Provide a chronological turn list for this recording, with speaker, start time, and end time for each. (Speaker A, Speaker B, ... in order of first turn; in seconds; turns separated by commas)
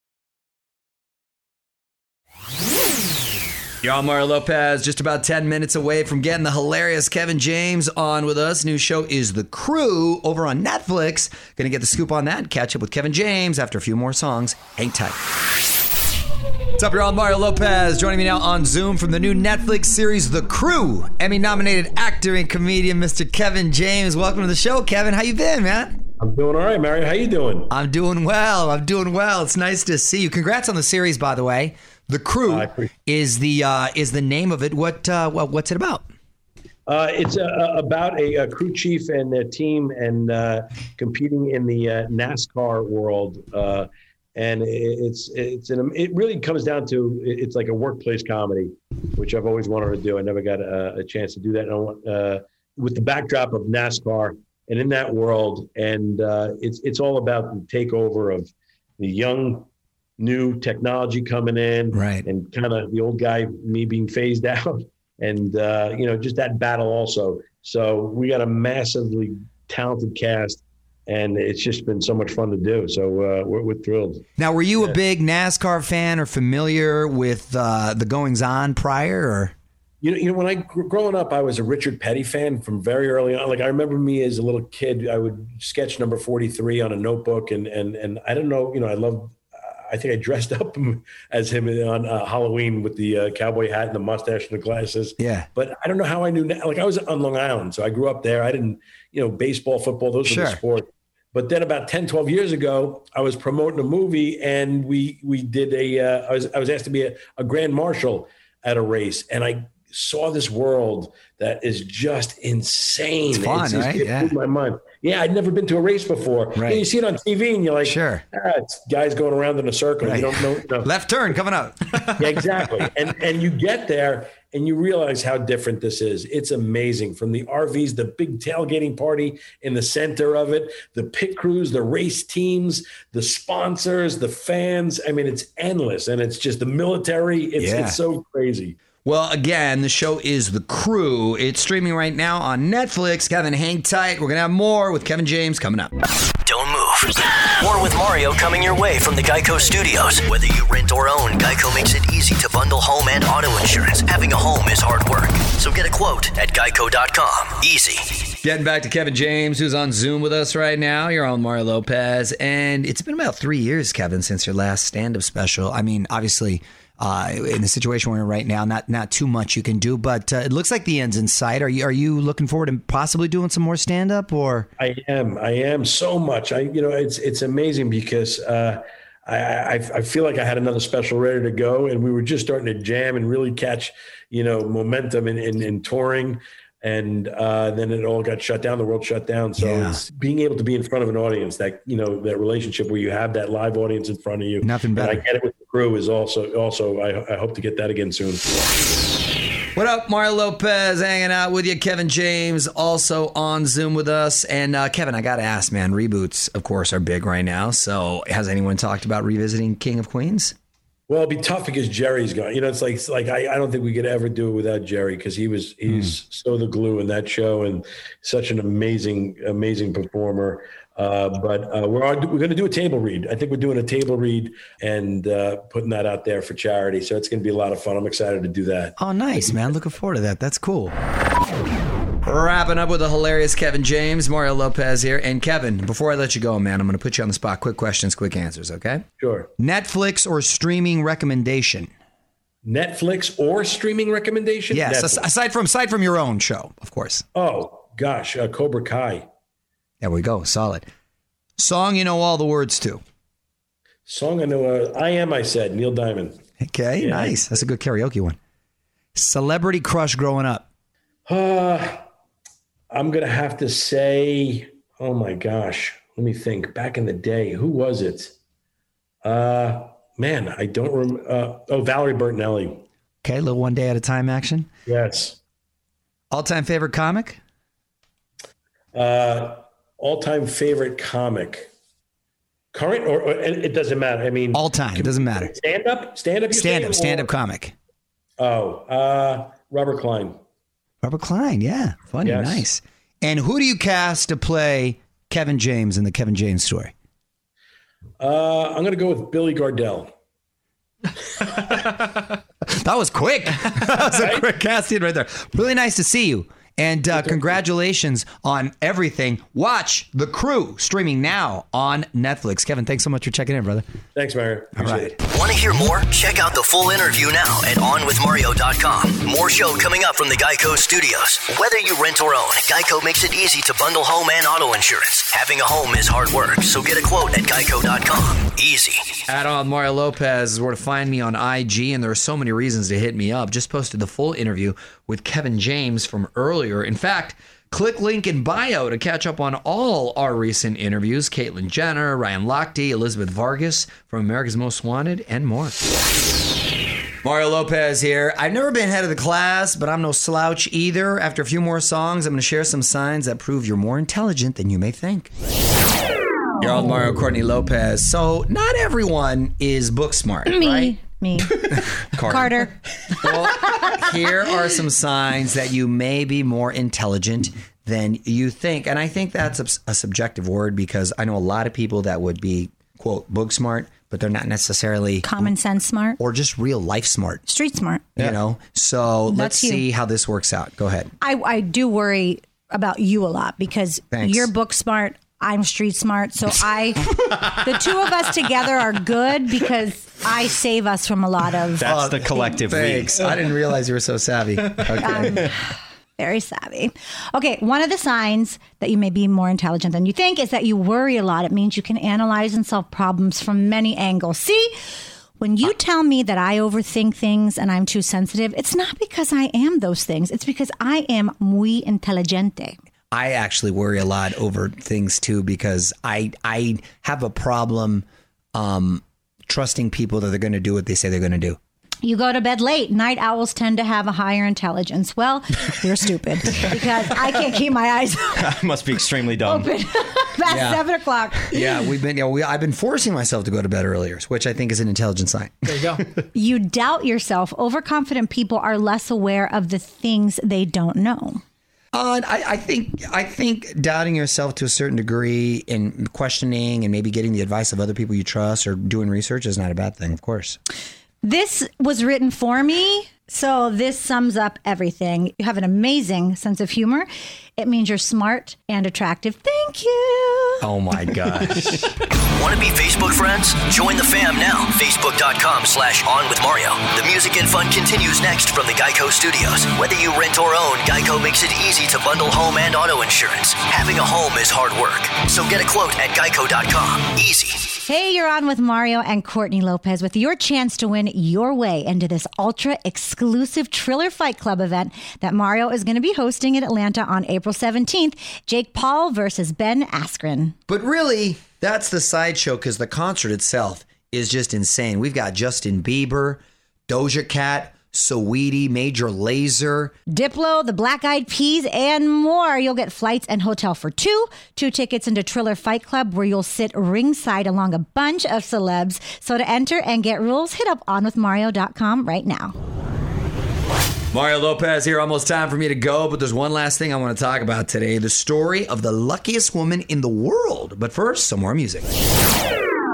Speaker A: 3.8-15.2, Speaker A: 16.8-25.9, Speaker B: 26.2-27.7, Speaker A: 27.7-36.1, Speaker B: 32.5-32.9, Speaker B: 36.9-59.7, Speaker B: 60.2-74.2, Speaker A: 61.9-62.2, Speaker A: 74.4-79.5, Speaker B: 80.0-120.9, Speaker A: 95.2-95.5, Speaker A: 100.3-100.6, Speaker A: 113.3-114.3, Speaker A: 116.5-116.8, Speaker A: 117.8-118.2, Speaker A: 120.0-122.3, Speaker B: 122.2-138.8, Speaker A: 137.6-138.0, Speaker A: 139.1-145.9, Speaker C: 146.4-158.0, Speaker A: 158.4-174.7, Speaker B: 174.8-198.5, Speaker A: 189.6-190.0, Speaker A: 194.6-195.2, Speaker A: 199.8-210.5, Speaker B: 211.1-228.9, Speaker A: 229.0-230.9, Speaker A: 232.3-239.0, Speaker B: 239.2-239.5, Speaker A: 239.6-241.9, Speaker B: 242.6-245.3, Speaker A: 244.7-247.2, Speaker B: 247.3-249.3, Speaker A: 250.0-250.9, Speaker A: 251.6-253.0, Speaker B: 254.1-256.4, Speaker A: 256.6-258.4, Speaker B: 257.0-257.6, Speaker A: 259.2-260.7, Speaker B: 261.3-262.0, Speaker B: 262.9-268.3, Speaker B: 269.2-272.8, Speaker A: 273.2-274.7, Speaker B: 274.9-275.4, Speaker A: 276.3-277.4, Speaker B: 278.9-281.7, Speaker B: 282.7-287.3, Speaker A: 284.5-285.5, Speaker A: 286.5-287.7, Speaker B: 288.4-290.4, Speaker A: 291.0-296.9, Speaker B: 292.2-292.7, Speaker B: 298.2-300.1, Speaker A: 302.7-313.9, Speaker B: 314.1-315.2, Speaker A: 314.8-315.1, Speaker C: 315.2-329.2, Speaker A: 329.3-345.8, Speaker A: 347.2-355.3, Speaker A: 356.6-361.0, Speaker D: 360.5-362.7, Speaker E: 362.1-362.5, Speaker A: 363.2-375.5, Speaker D: 375.2-376.2, Speaker A: 376.2-377.4, Speaker D: 377.5-378.1, Speaker A: 378.2-381.1, Speaker D: 379.3-379.9, Speaker D: 381.2-391.9, Speaker A: 384.1-384.5, Speaker E: 391.8-393.2, Speaker A: 391.8-395.5, Speaker D: 395.0-395.7, Speaker D: 396.2-404.7, Speaker D: 405.4-412.8, Speaker A: 413.1-421.6, Speaker D: 422.0-428.5, Speaker E: 428.4-429.7, Speaker D: 429.4-431.8, Speaker A: 430.5-430.9, Speaker A: 431.5-435.9, Speaker D: 436.3-441.4, Speaker A: 441.9-450.6, Speaker D: 451.2-460.6, Speaker A: 460.6-461.8, Speaker C: 462.4-477.6, Speaker D: 477.8-490.6, Speaker A: 490.7-499.9, Speaker D: 500.1-512.5, Speaker A: 514.1-521.9